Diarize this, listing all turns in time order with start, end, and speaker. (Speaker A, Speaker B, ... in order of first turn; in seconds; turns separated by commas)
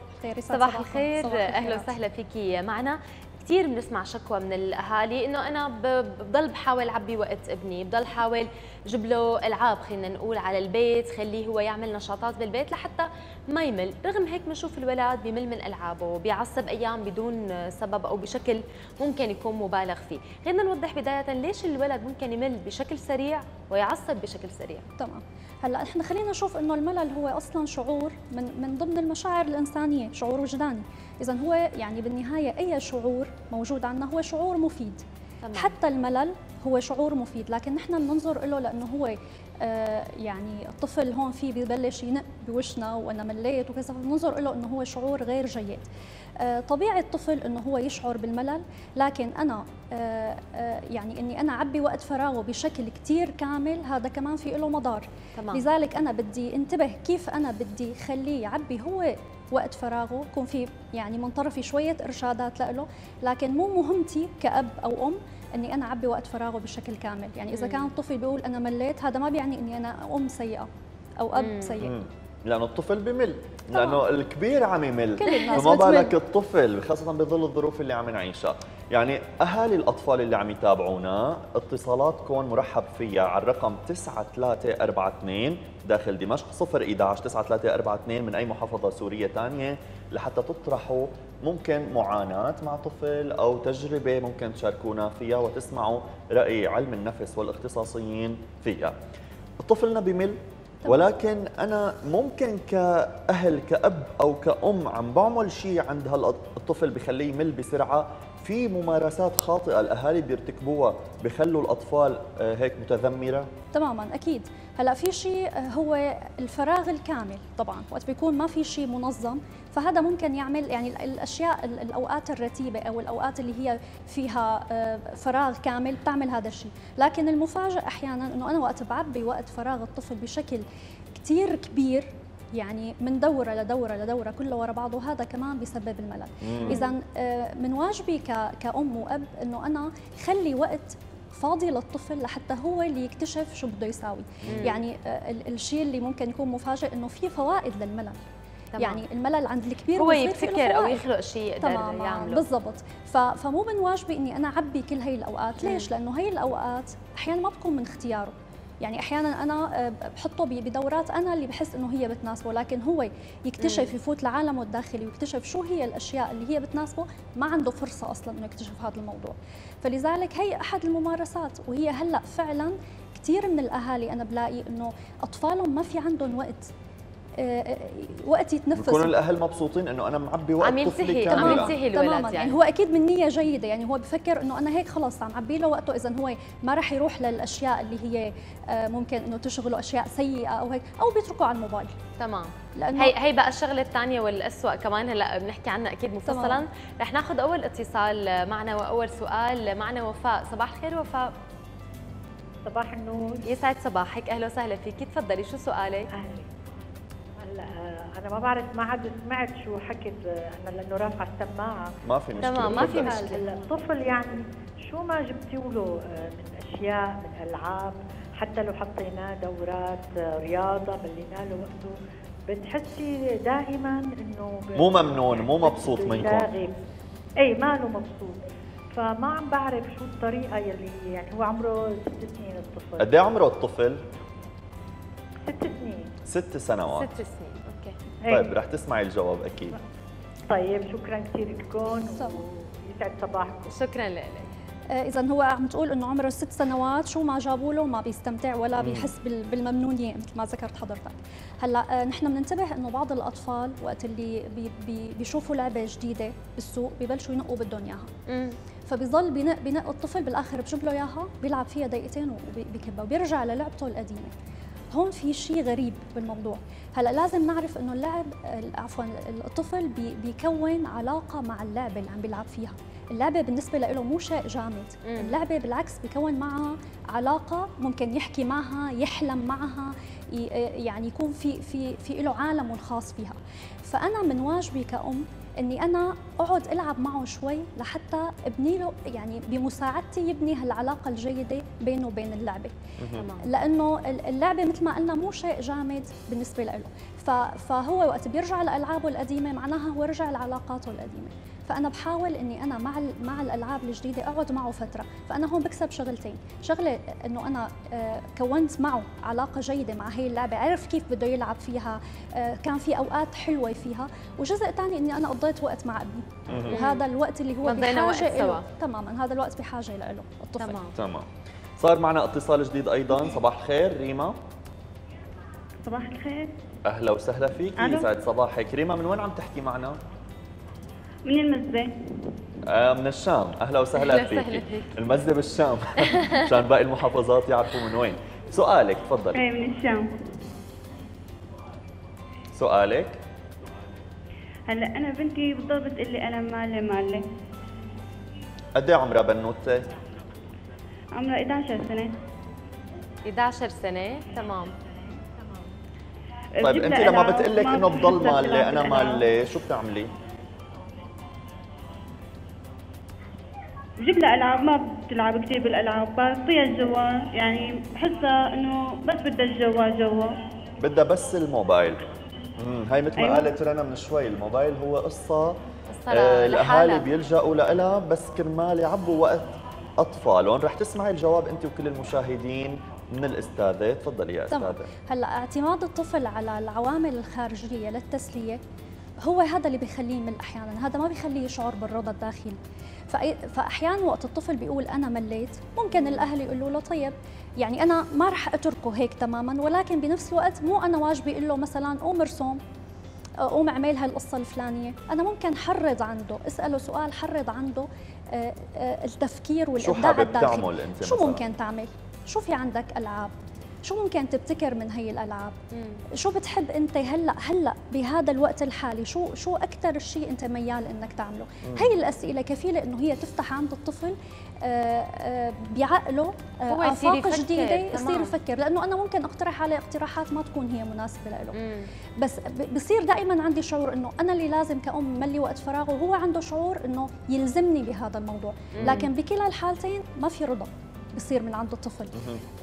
Speaker A: 0.2-1.9, Speaker B: 0.5-24.8, Speaker A: 25.0-45.8, Speaker B: 35.4-35.7, Speaker A: 46.4-70.7, Speaker B: 55.4-55.6, Speaker B: 67.5-67.9, Speaker A: 71.2-71.9, Speaker B: 71.3-71.8, Speaker C: 71.8-98.9, Speaker A: 73.7-74.0, Speaker A: 75.2-76.1, Speaker C: 99.6-113.5, Speaker A: 113.7-130.7, Speaker A: 131.2-148.2, Speaker C: 136.4-136.8, Speaker C: 144.4-144.7, Speaker B: 144.5-144.8, Speaker B: 148.7-149.0, Speaker A: 148.8-151.1, Speaker B: 150.0-152.4, Speaker A: 151.6-176.7, Speaker B: 155.6-155.9, Speaker B: 163.6-163.9, Speaker A: 177.4-179.1, Speaker C: 178.8-181.7, Speaker B: 180.6-182.6, Speaker A: 181.3-191.9, Speaker B: 192.2-201.3, Speaker A: 192.8-193.1, Speaker A: 196.2-196.6, Speaker D: 202.6-203.4, Speaker B: 203.4-206.1, Speaker D: 206.1-206.5, Speaker D: 207.4-211.9, Speaker C: 212.1-213.2, Speaker B: 212.4-213.4, Speaker D: 212.4-221.9, Speaker D: 222.5-226.8, Speaker C: 224.8-226.5, Speaker D: 227.4-228.4, Speaker D: 228.9-233.1, Speaker C: 233.0-234.0, Speaker D: 235.5-236.1, Speaker C: 236.3-237.1, Speaker B: 236.9-237.9, Speaker D: 238.2-238.5, Speaker C: 238.3-239.8, Speaker D: 240.5-243.7, Speaker B: 243.7-244.5, Speaker A: 244.9-258.1, Speaker C: 248.8-249.1, Speaker B: 258.3-258.6, Speaker A: 258.9-264.3, Speaker A: 264.9-292.7, Speaker B: 275.1-275.4, Speaker C: 293.0-293.2, Speaker B: 293.1-293.4, Speaker A: 293.4-320.8, Speaker C: 316.5-316.8, Speaker B: 316.7-317.0, Speaker B: 317.6-318.6, Speaker B: 320.6-320.9, Speaker C: 320.9-321.3, Speaker C: 321.8-324.4, Speaker E: 325.9-326.5, Speaker C: 326.9-330.0, Speaker E: 327.8-328.1, Speaker E: 331.2-331.9, Speaker C: 332.7-339.4, Speaker B: 334.0-334.9, Speaker E: 339.3-340.1, Speaker C: 342.5-343.2, Speaker E: 344.7-347.2, Speaker C: 348.7-349.9, Speaker E: 351.1-352.1, Speaker B: 353.2-354.7, Speaker E: 356.6-359.2, Speaker C: 356.6-360.1, Speaker E: 364.0-370.3, Speaker C: 370.8-372.0, Speaker C: 372.6-375.6, Speaker E: 373.2-373.4, Speaker B: 375.9-377.0, Speaker C: 376.1-384.9, Speaker A: 384.5-388.6, Speaker A: 389.2-392.6, Speaker A: 393.1-402.6, Speaker B: 395.9-396.2, Speaker A: 403.4-413.3, Speaker C: 409.8-411.4, Speaker A: 413.8-415.5, Speaker B: 415.7-416.0, Speaker A: 416.2-431.6, Speaker C: 421.6-421.9, Speaker B: 426.7-428.3, Speaker B: 431.5-431.9, Speaker A: 432.2-442.1, Speaker B: 438.7-439.1, Speaker C: 442.1-442.4